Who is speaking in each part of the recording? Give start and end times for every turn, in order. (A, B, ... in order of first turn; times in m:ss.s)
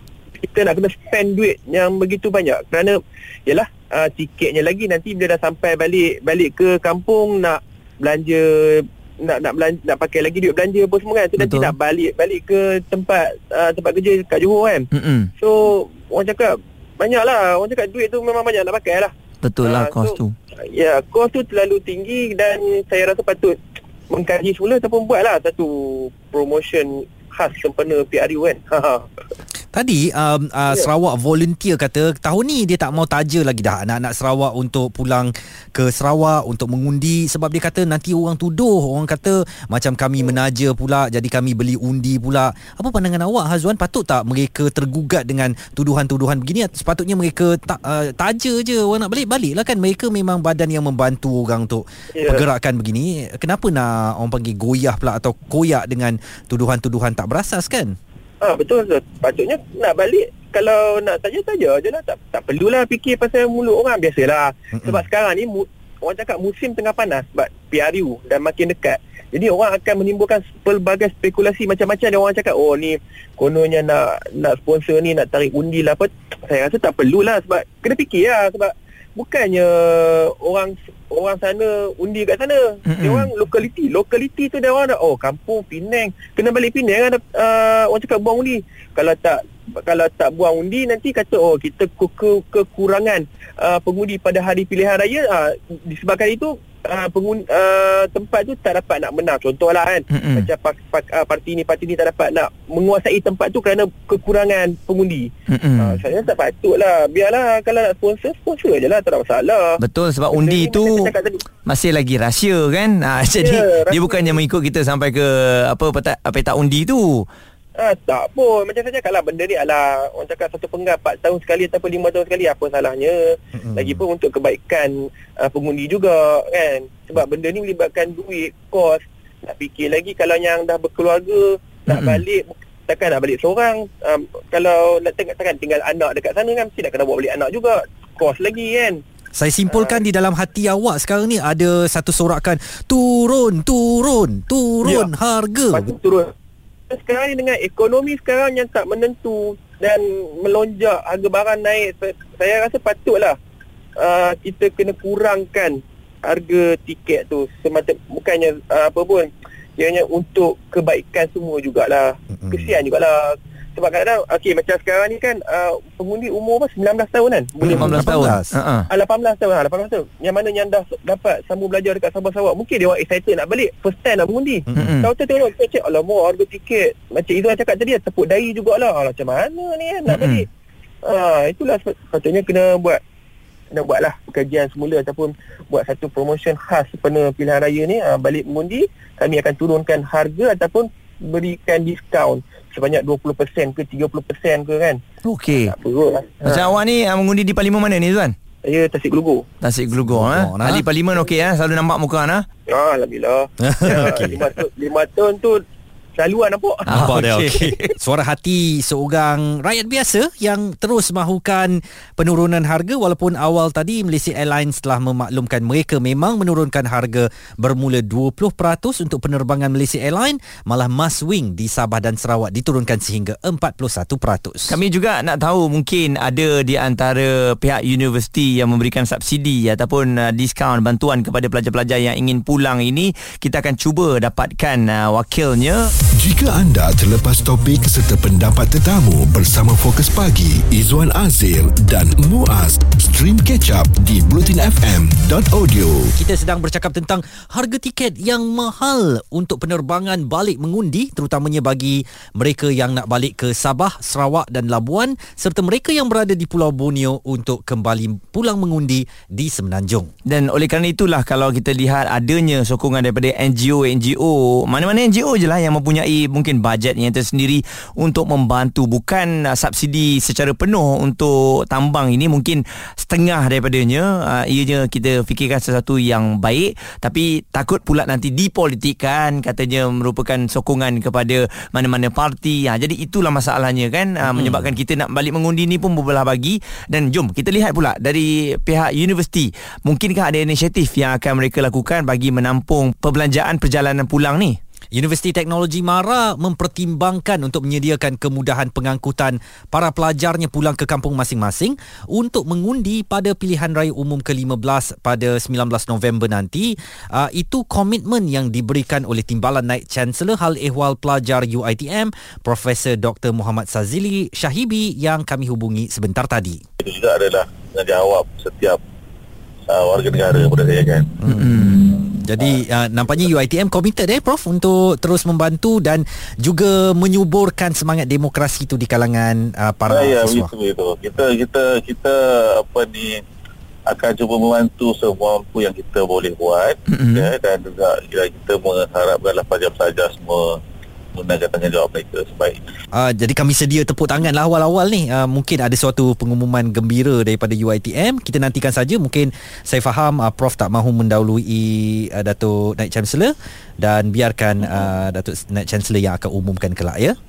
0:00.4-0:14.9 A
0:11.4-0:11.7 B
0:14.9-0:15.3 B
0:15.4-0:19.1 A
0:19.4-0:20.4 B
0:19.6-0:23.6 A
0:24.1-0:29.1 A
0:29.7-0:58.0 C
0:52.2-0:52.4 A
0:58.4-1:49.8 A
1:04.7-1:05.0 C
1:22.9-1:23.3 B
1:40.1-1:40.5 B
1:45.5-1:46.0 B
1:49.8-1:51.1 B
1:50.3-1:51.4 A
1:51.7-1:57.3 B
1:53.4-1:54.4 A
1:57.8-2:19.0 A
2:03.6-2:04.0 C
2:11.9-2:12.2 B
2:19.4-2:26.0 C
2:19.7-2:20.0 A
2:24.8-2:25.1 A
2:25.7-2:26.3 A
2:26.9-2:33.4 A
2:34.0-2:48.3 A
2:42.3-2:42.8 C
2:47.6-2:48.5 C
2:47.7-2:48.9 B
2:48.9-3:00.5 A
2:54.8-2:55.1 B
3:00.1-3:00.4 B
3:01.0-3:03.0 A
3:03.7-3:15.0 A
3:15.2-3:15.7 B
3:15.7-3:16.7 A
3:16.4-3:18.4 B
3:18.6-3:19.4 A
3:19.6-3:22.4 B
3:20.1-3:20.9 C
3:22.7-3:25.6 A
3:23.6-3:24.5 C
3:24.0-3:24.3 B
3:26.2-3:27.1 A
3:26.9-3:27.9 B
3:26.9-3:44.8 C
3:44.7-3:55.9 B
3:56.2-4:06.1 D
4:06.2-4:20.1 C
4:20.3-4:54.6 B
4:44.3-4:44.7 C
4:54.9-5:16.6 C
5:16.8-5:18.8 E
5:19.7-5:22.6 E
5:21.2-5:21.5 C
5:21.3-5:21.8 B
5:22.2-5:30.5 C
5:29.9-5:33.2 E
5:33.9-5:40.6 E
5:36.9-5:37.3 B
5:41.2-5:42.6 E
5:42.9-5:57.2 C